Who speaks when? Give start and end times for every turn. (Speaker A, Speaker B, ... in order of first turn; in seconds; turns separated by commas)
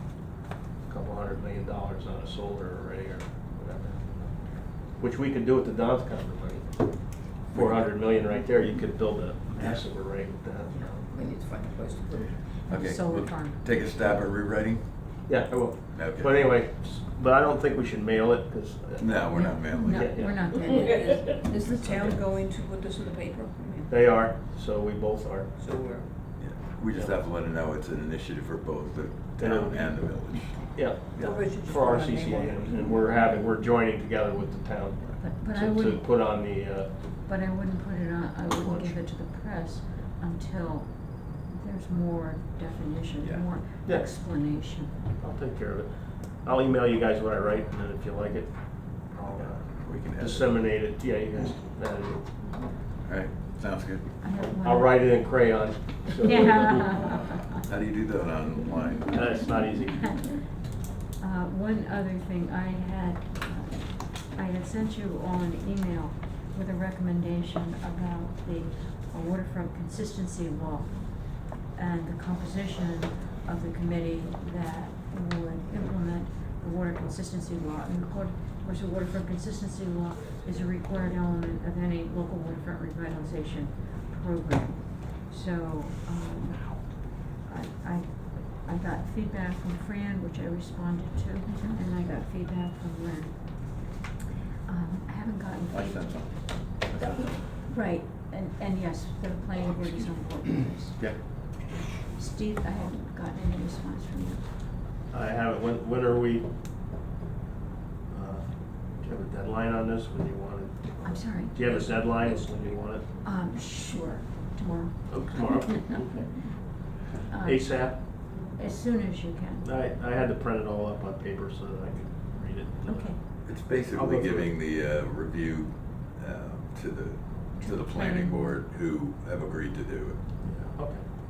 Speaker A: 0.8-11.1, Speaker B: 7.5-7.9, Speaker C: 11.0-12.4, Speaker B: 12.7-15.3, Speaker D: 12.7-13.6, Speaker A: 15.3-20.5, Speaker B: 15.9-16.5, Speaker B: 19.0-20.3, Speaker D: 19.3-21.2, Speaker C: 20.5-23.9, Speaker A: 23.9-25.5, Speaker C: 25.6-26.1, Speaker B: 26.4-31.4, Speaker A: 29.4-37.0, Speaker C: 31.2-33.2, Speaker D: 35.2-36.2, Speaker D: 37.2-45.0, Speaker A: 38.5-39.0, Speaker A: 43.8-52.7, Speaker B: 49.3-50.6, Speaker B: 53.0-54.2, Speaker D: 54.2-55.4, Speaker A: 54.6-57.0, Speaker D: 56.2-57.5, Speaker B: 57.6-59.3, Speaker A: 59.1-60.3, Speaker D: 59.9-60.4, Speaker D: 61.2-93.9, Speaker D: 94.7-96.5, Speaker B: 95.7-97.4, Speaker D: 97.4-101.3, Speaker D: 102.1-104.5, Speaker A: 105.1-106.5, Speaker A: 108.1-113.1, Speaker D: 111.0-112.2, Speaker D: 113.2-116.2, Speaker A: 115.1-116.5, Speaker D: 117.3-119.7, Speaker A: 117.3-118.3, Speaker A: 119.6-124.5, Speaker D: 122.8-123.2, Speaker B: 123.4-130.3, Speaker D: 127.6-128.6, Speaker A: 130.4-131.1